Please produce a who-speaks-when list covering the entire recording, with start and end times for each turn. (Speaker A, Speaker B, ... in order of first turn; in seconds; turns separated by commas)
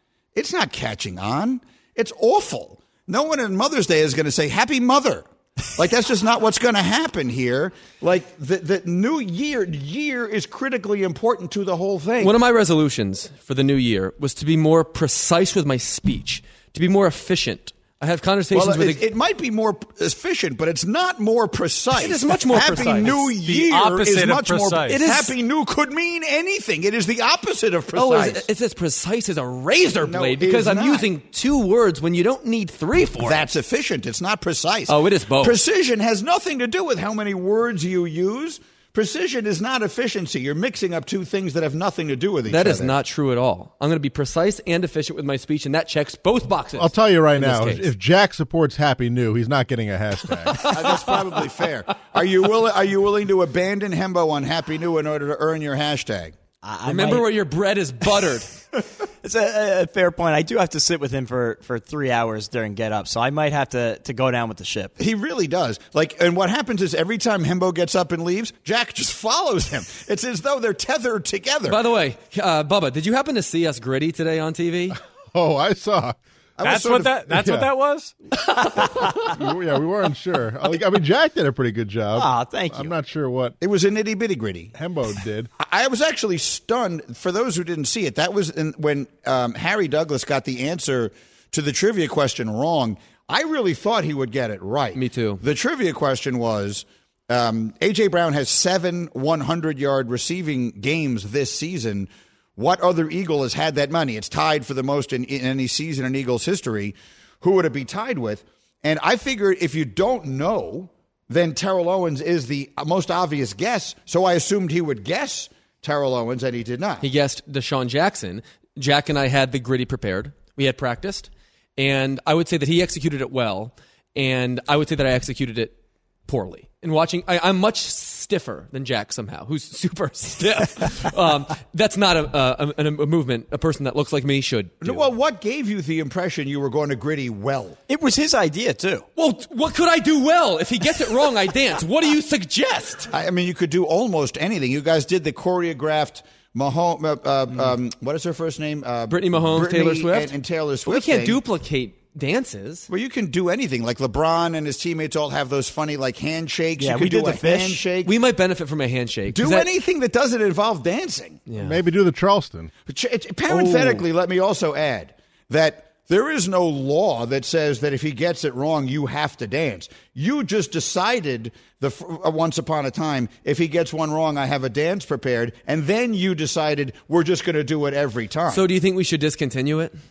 Speaker A: 0.3-12.3, Speaker B: 12.2-19.0, Speaker A: 18.5-28.5, Speaker B: 21.9-23.3, Speaker C: 22.6-25.0, Speaker B: 24.9-25.3, Speaker B: 27.9-33.4, Speaker A: 30.0-31.1, Speaker A: 33.2-43.0, Speaker B: 34.9-35.6, Speaker B: 42.5-47.9, Speaker D: 46.7-50.7, Speaker A: 50.6-56.3, Speaker E: 56.6-57.4, Speaker B: 56.9-58.5, Speaker E: 59.2-64.9, Speaker A: 65.0-71.8, Speaker B: 71.7-75.0, Speaker D: 75.3-76.2, Speaker A: 76.6-77.5, Speaker C: 76.6-78.1, Speaker D: 77.3-77.7, Speaker D: 79.3-83.5, Speaker E: 82.1-83.0, Speaker A: 83.6-84.7, Speaker D: 84.7-85.5, Speaker A: 85.6-117.1, Speaker B: 94.9-95.4, Speaker B: 117.0-125.7, Speaker B: 126.3-135.1, Speaker A: 134.8-137.8, Speaker E: 137.9-139.1, Speaker B: 139.2-143.1, Speaker A: 143.1-151.4, Speaker B: 149.1-150.3, Speaker B: 150.8-152.9, Speaker A: 152.9-158.1, Speaker E: 156.8-157.9, Speaker B: 158.0-159.7, Speaker A: 159.3-161.4, Speaker B: 161.5-161.8, Speaker D: 161.6-162.7, Speaker A: 162.9-178.6, Speaker E: 163.5-164.0, Speaker B: 178.5-179.9